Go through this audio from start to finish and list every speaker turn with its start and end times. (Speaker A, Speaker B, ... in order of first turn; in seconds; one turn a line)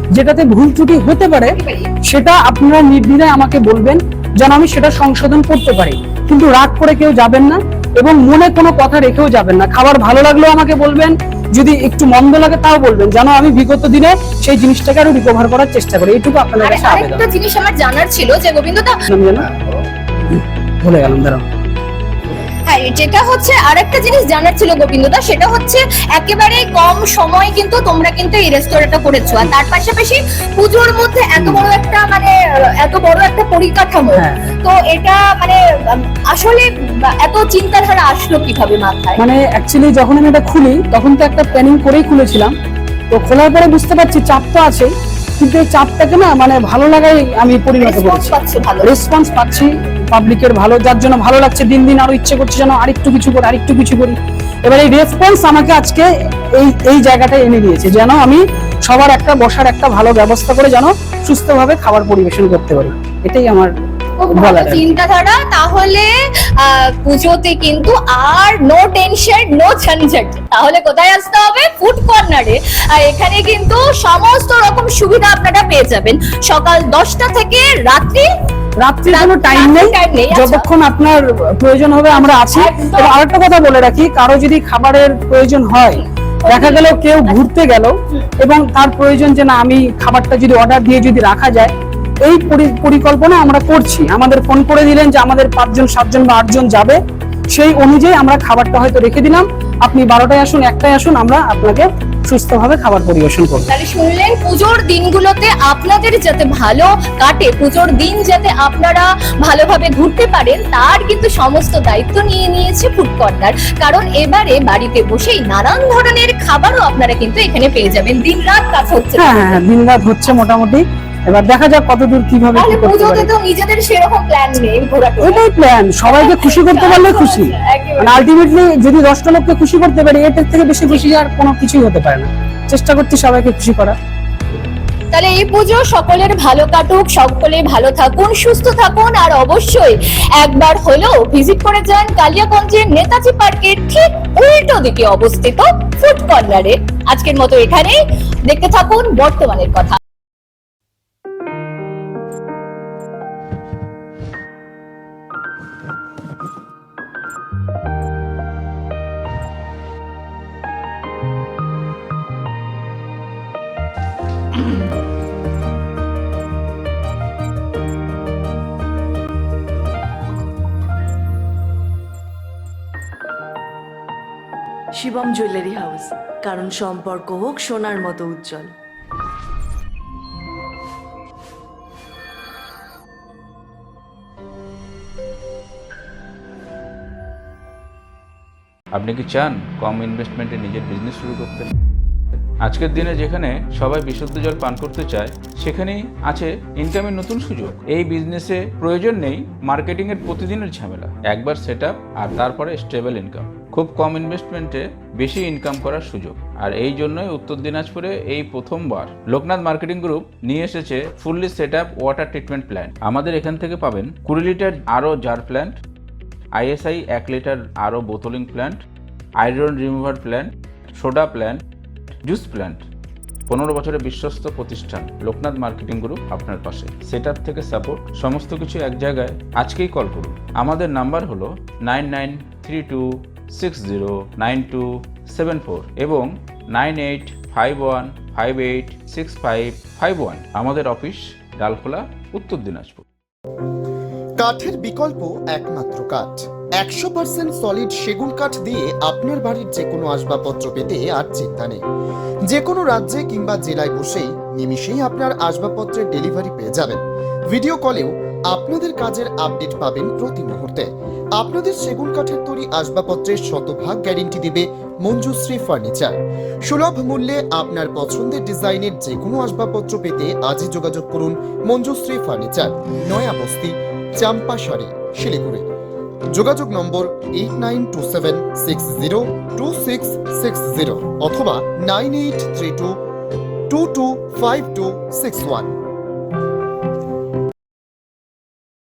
Speaker A: 0.1-1.6
Speaker B: 1.5-1.9
Speaker A: 2.1-17.2
Speaker B: 16.6-18.9
Speaker A: 19.1-19.4
Speaker A: 20.3-21.4
Speaker B: 22.7-39.2
Speaker A: 31.4-31.6
Speaker A: 34.1-34.5
Speaker A: 39.2-42.5
Speaker A: 43.1-63.7
Speaker B: 47.8-48.9
Speaker B: 64.2-78.3
Speaker A: 64.3-64.8
Speaker A: 78.8-91.7
Speaker B: 79.1-80.7
Speaker B: 82.1-83.2
Speaker B: 86.4-87.4
Speaker A: 92.2-97.0
Speaker A: 97.5-103.7
Speaker B: 103.7-119.6
Speaker A: 119.2-123.3
Speaker B: 122.5-125.4
Speaker A: 125.2-133.9
Speaker B: 126.0-128.3
Speaker B: 135.1-150.0
Speaker C: 174.9-178.7
Speaker D: 188.9-191.7
Speaker D: 192.6-215.8
Speaker D: 216.6-218.8
Speaker D: 219.4-221.6
Speaker D: 222.2-222.8
Speaker D: 223.5-243.0
Speaker E: 244.4-251.8
Speaker E: 252.5-266.1
Speaker E: 266.7-275.6
Speaker E: 276.3-282.9
Speaker E: 283.7-285.8